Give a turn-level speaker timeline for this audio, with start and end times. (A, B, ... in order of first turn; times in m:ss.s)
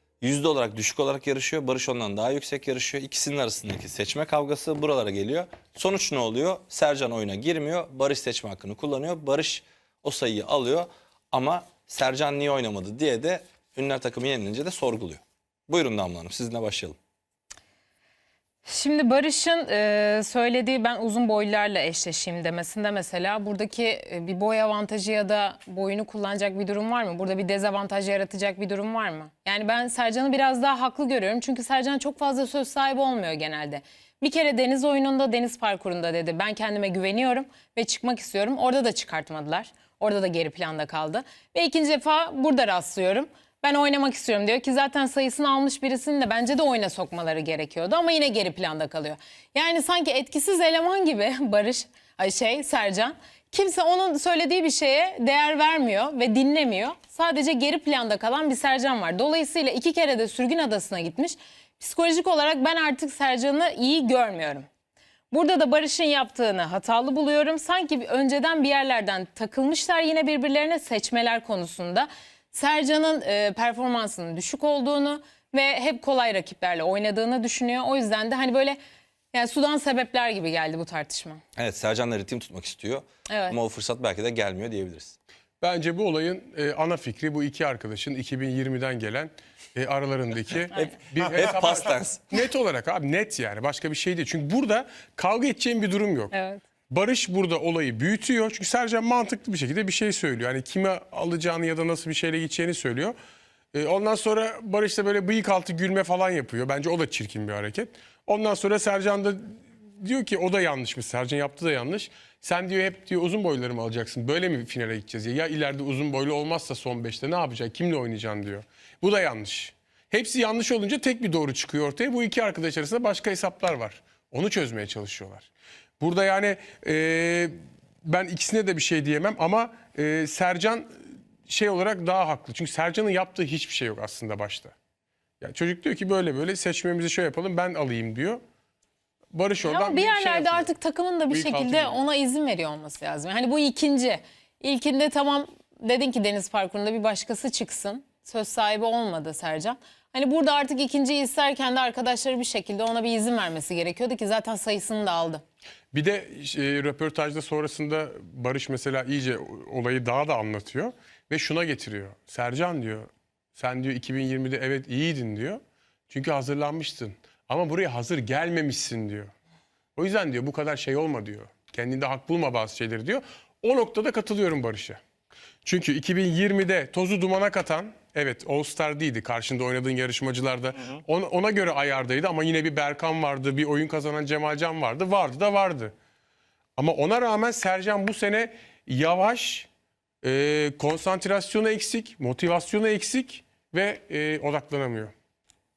0:00.2-0:17.0 A
0:18.6-1:04.6 B
1:05.3-1:18.8 B
1:19.3-1:21.4 B
1:21.6-1:25.2 A
1:23.3-1:23.6 B
1:25.6-1:36.3 C
1:31.2-1:32.2 A
1:36.3-1:36.6 B
1:36.9-1:43.1 C
1:43.7-2:05.5 C
2:06.0-2:14.7 C
2:15.4-2:18.4 C
2:19.3-2:20.7 C
2:19.6-2:35.4 B
2:21.3-2:22.0 C
2:35.9-2:49.3 C
2:50.0-2:55.0 C
2:55.6-3:05.9 C
3:06.8-3:09.7 C
3:10.2-3:15.1 C